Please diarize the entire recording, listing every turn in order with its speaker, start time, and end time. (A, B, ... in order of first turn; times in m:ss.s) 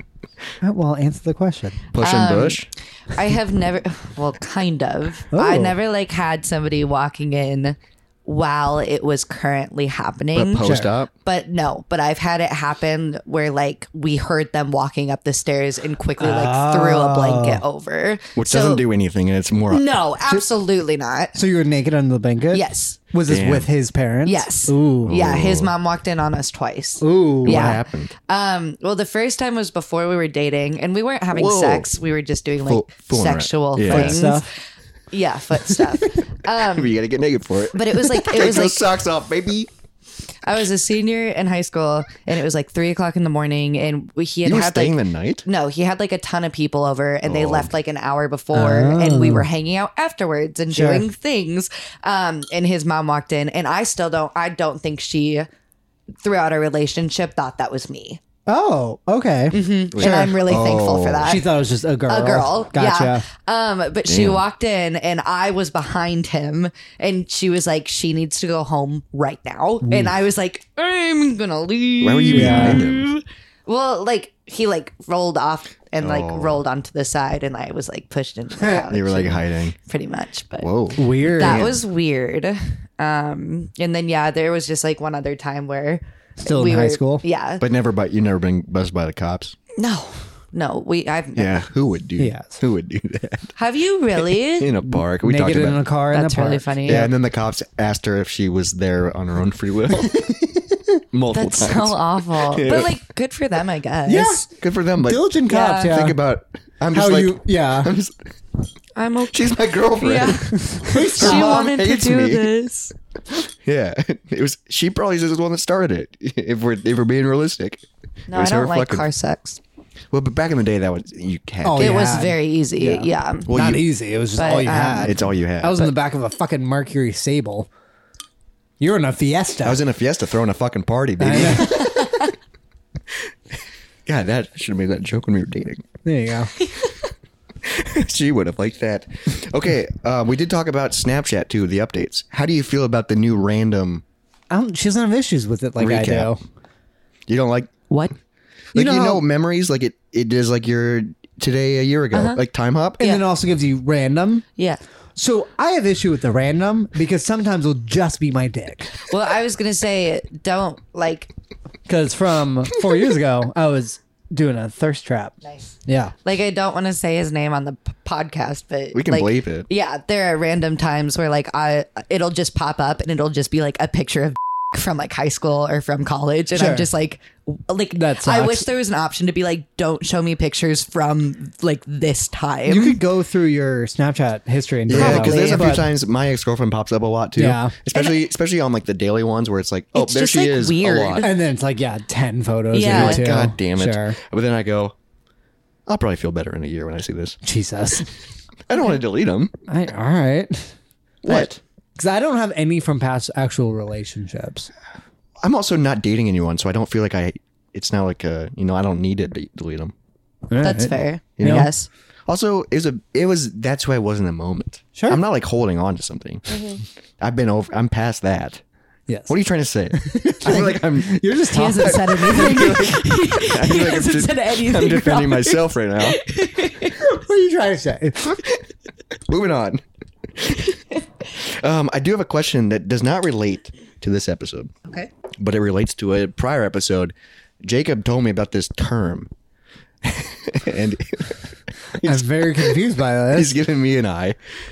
0:00.6-0:01.8 A
0:01.9-0:02.7 B
0:02.0-0:18.8 C
0:05.3-0:05.8 A
0:10.3-0:11.1 B
0:10.6-0:10.9 A
0:16.2-0:17.6 A
0:18.4-0:19.8 B
0:19.7-0:21.4 C
0:21.4-0:25.2 A
0:22.5-0:23.0 C
0:23.3-0:23.7 B
0:24.2-0:34.4 C
0:25.1-0:25.7 B
0:27.0-0:27.8 A
0:27.4-0:28.1 B
0:31.3-0:31.9 B
0:32.6-0:34.3 B
0:33.8-0:34.4 A
0:35.1-0:37.0 C
0:36.6-0:39.7 B
0:37.7-0:38.9 C
0:40.4-0:55.5 C
0:44.4-0:45.4 B
0:47.2-0:47.7 B
0:48.5-0:49.5 A
0:50.7-0:51.1 A
0:56.2-0:58.2 C
0:58.5-1:00.4 A
0:59.5-1:01.4 C
1:00.0-1:01.4 B
1:01.2-1:03.2 A
1:02.1-1:27.6 C
1:04.1-1:04.4 B
1:09.8-1:10.1 A
1:12.0-1:13.1 B
1:12.3-1:12.8 A
1:16.0-1:16.6 B
1:18.7-1:19.7 B
1:20.6-1:21.8 B
1:21.0-1:21.7 A
1:26.4-1:27.2 A
1:27.6-1:29.6 B
1:29.8-1:31.6 C
1:31.4-1:33.6 B
1:32.2-1:32.6 A
1:33.6-1:34.7 C
1:34.4-1:35.8 B
1:35.0-1:37.1 A
1:36.1-1:37.1 C
1:36.9-1:40.4 B
1:41.1-1:43.0 B
1:41.3-1:44.4 C
1:44.1-1:46.2 A
1:44.6-1:48.3 B
1:45.5-1:46.0 C
1:46.9-1:47.9 A
1:49.0-1:52.9 C
1:49.3-1:52.5 B
1:50.8-1:51.6 A
1:53.6-1:59.1 B
1:58.3-1:59.6 C
2:00.1-2:02.0 B
2:01.6-2:07.7 A
2:01.8-2:03.5 C
2:03.5-2:03.8 B
2:04.4-2:05.2 C
2:05.0-2:06.0 B
2:08.8-2:09.8 A
2:09.6-2:12.2 B
2:11.2-2:12.0 A
2:11.6-2:12.3 C
2:14.1-2:15.8 B
2:16.0-2:16.5 A
2:17.6-2:24.0 B
2:24.5-2:26.4 A
2:25.8-2:26.3 B
2:27.3-2:27.7 B
2:28.7-2:33.0 B
2:28.7-2:29.2 A
2:32.1-2:32.4 C
2:33.0-2:34.4 A
2:35.2-2:39.0 A
2:39.0-2:41.3 C
2:41.9-2:45.4 A
2:45.4-3:03.0 C
2:45.9-2:46.1 A
2:48.9-2:49.7 B
2:56.5-2:56.9 A
2:57.9-2:58.7 A
3:02.7-3:05.9 A
3:04.9-3:11.3 B
3:04.9-3:05.7 C
3:07.4-3:07.7 A
3:07.9-3:08.3 C
3:10.0-3:11.3 C
3:11.2-3:14.2 A
3:12.7-3:13.3 C
3:12.8-3:15.0 B
3:15.9-3:17.4 B
3:17.4-3:18.1 A
3:18.7-3:19.5 B
3:19.7-3:20.7 A
3:21.2-3:21.6 B
3:21.2-3:24.7 A
3:25.4-3:29.9 B
3:30.5-3:31.7 A
3:30.6-3:31.9 C
3:31.4-3:31.7 B
3:32.3-3:38.6 B
3:35.0-3:35.2 A
3:36.5-3:36.8 C
3:39.1-3:39.3 A
3:39.3-3:46.2 B
3:39.9-3:42.7 A
3:41.5-3:47.0 C
3:47.0-3:48.4 A
3:48.2-3:48.6 B
3:49.2-3:50.8 B
3:51.4-3:54.7 B
3:55.4-3:59.3 B
4:00.0-4:02.7 B
4:02.0-4:03.6 A
4:03.3-4:04.4 B